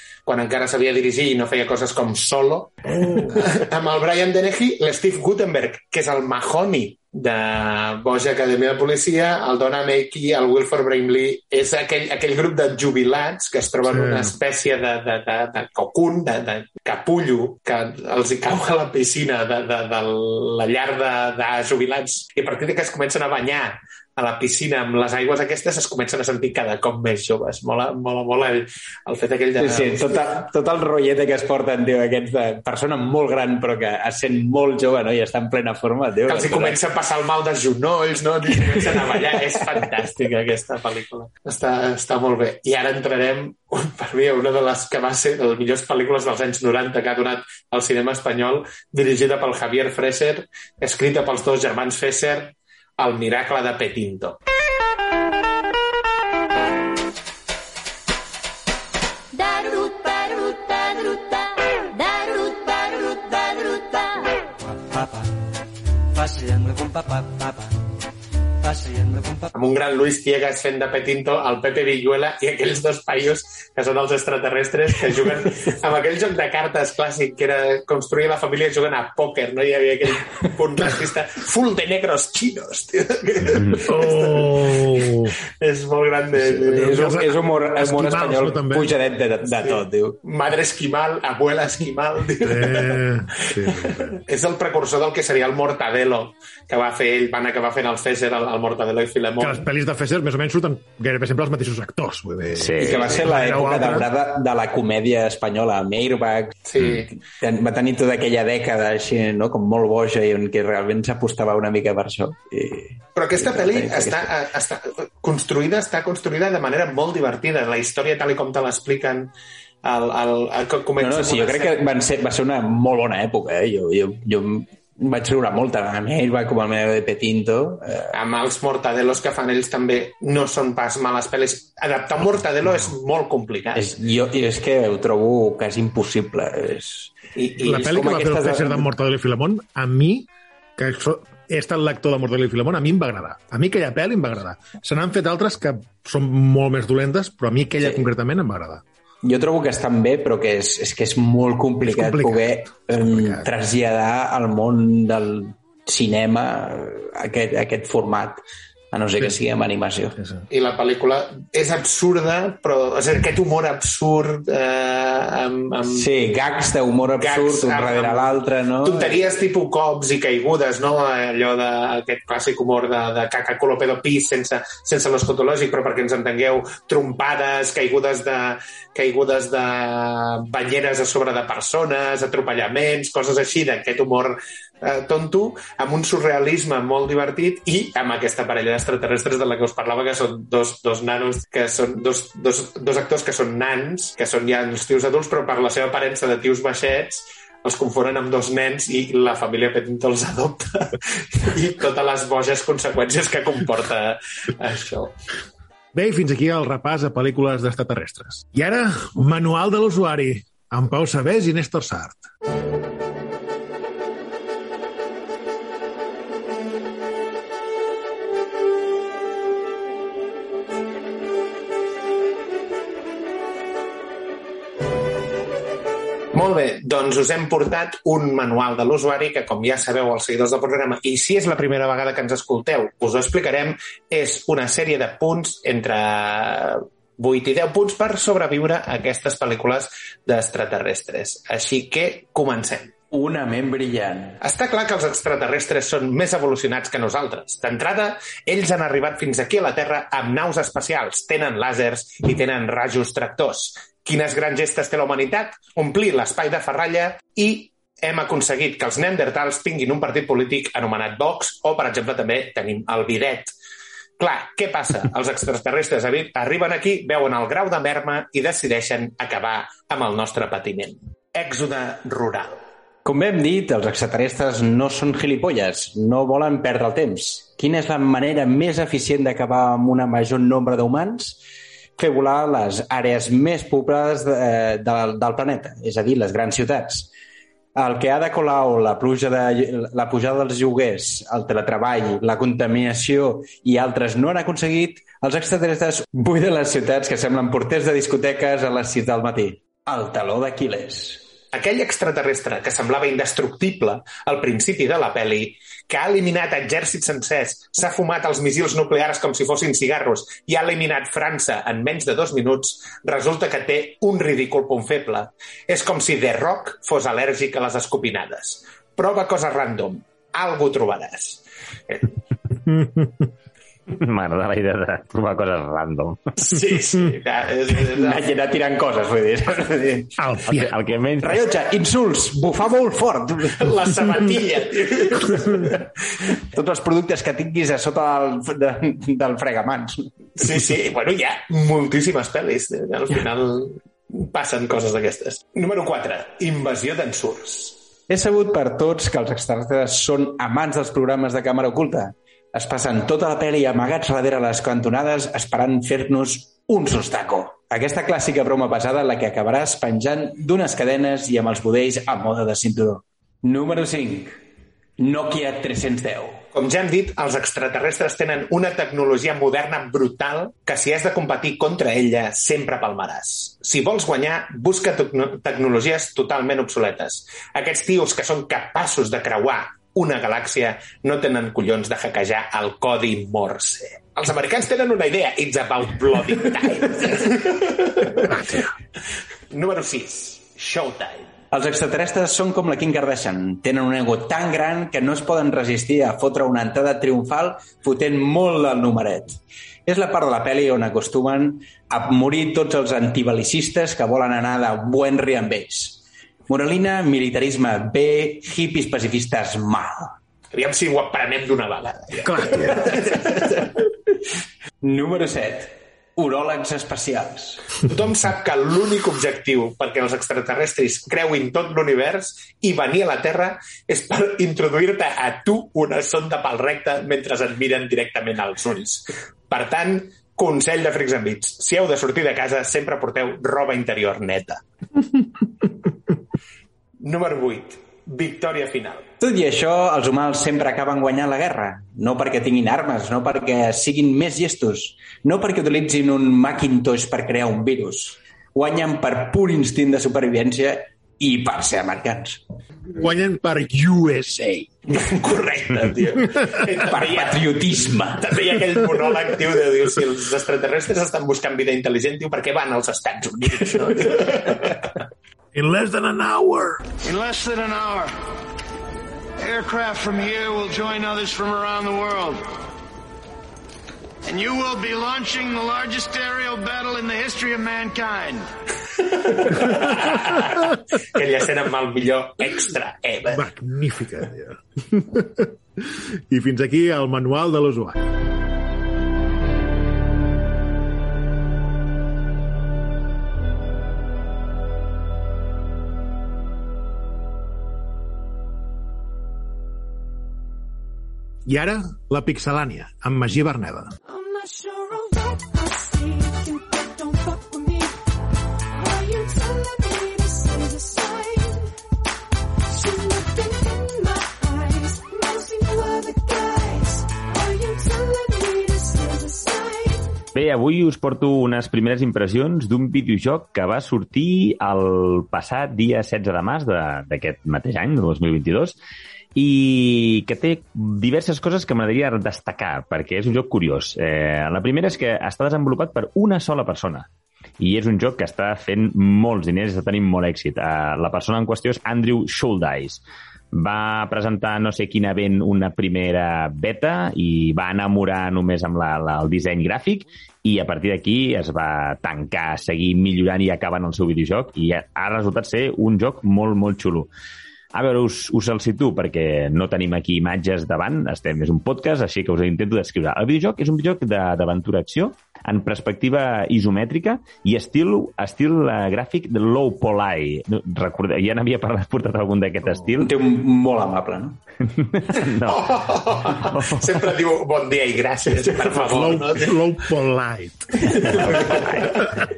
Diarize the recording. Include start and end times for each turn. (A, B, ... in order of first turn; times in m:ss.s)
0:00.3-0:30.2 A
0:02.9-0:03.6 B
0:13.8-0:14.4 B
0:29.6-0:36.8 C
0:36.3-0:54.4 A
0:38.9-0:39.2 C
0:59.4-1:04.3 D
1:04.9-1:05.2 D
1:06.2-1:07.7 D
1:08.6-1:09.5 D
1:09.5-1:27.2 A
1:23.5-1:23.8 E
1:23.9-1:25.4 B
1:26.4-1:30.2 C
1:26.7-1:29.0 B
1:29.6-1:39.6 A
1:32.4-1:34.2 B
1:39.4-1:44.1 B
1:42.6-1:43.2 E
1:42.8-1:54.3 C
1:46.7-1:47.1 A
1:53.2-1:59.3 A
1:59.8-2:01.8 A
2:01.0-2:08.1 C
2:08.1-2:13.9 A
2:13.8-2:17.1 C
2:17.4-2:17.9 A
2:17.6-2:18.9 C
2:17.6-2:28.8 B
2:29.2-2:38.4 C
2:31.8-2:33.5 B
2:38.9-2:40.2 C
2:40.5-2:46.1 A
2:45.9-2:49.3 C
2:47.2-3:25.2 A
3:25.9-3:32.2 B
3:46.3-4:02.9 A
4:03.1-4:04.4 C
4:04.4-4:23.5 A
4:24.2-4:32.6 A
4:33.0-4:41.4 C
4:42.0-4:47.1 C
4:47.8-5:01.2 C
5:01.5-5:22.1 A
5:22.7-5:23.2 B
5:23.9-5:26.3 E
5:26.4-5:28.3 A
5:27.8-5:30.2 C
5:30.2-5:30.8 B
5:30.5-5:31.5 E
5:31.2-5:33.9 C
5:33.6-5:35.9 A
5:36.5-5:40.1 C
5:40.4-5:47.8 A
5:48.1-6:04.4 C
6:05.0-6:06.4 C
6:06.5-6:28.3 A
6:28.3-6:28.6 B
6:29.5-6:31.3 A
6:31.5-6:50.2 C
6:50.5-6:53.5 A
6:52.2-6:53.0 B
6:52.6-6:53.9 C
6:54.8-6:57.6 C
6:57.9-7:14.6 A
7:17.0-7:19.1 A
7:19.2-7:32.4 C
7:32.9-7:34.7 B
7:34.9-7:37.6 A
7:36.7-7:38.4 C
7:38.2-7:44.8 A
7:45.5-7:46.9 B
7:47.0-7:48.1 F
7:49.4-7:52.4 F
7:54.2-7:58.5 F
7:59.1-8:03.5 A
8:03.3-8:08.1 B
8:21.5-8:23.9 B
8:24.1-8:28.0 G
8:28.7-8:31.7 G
8:32.7-8:40.1 G
8:40.4-8:48.8 E
8:49.4-8:57.1 E
8:57.6-9:17.1 E
9:17.7-9:33.2 E
9:33.0-9:34.4 C
9:34.7-9:37.0 E
9:35.4-9:39.6 A
9:38.3-9:38.7 C
9:38.8-9:41.3 B
9:41.3-9:42.2 E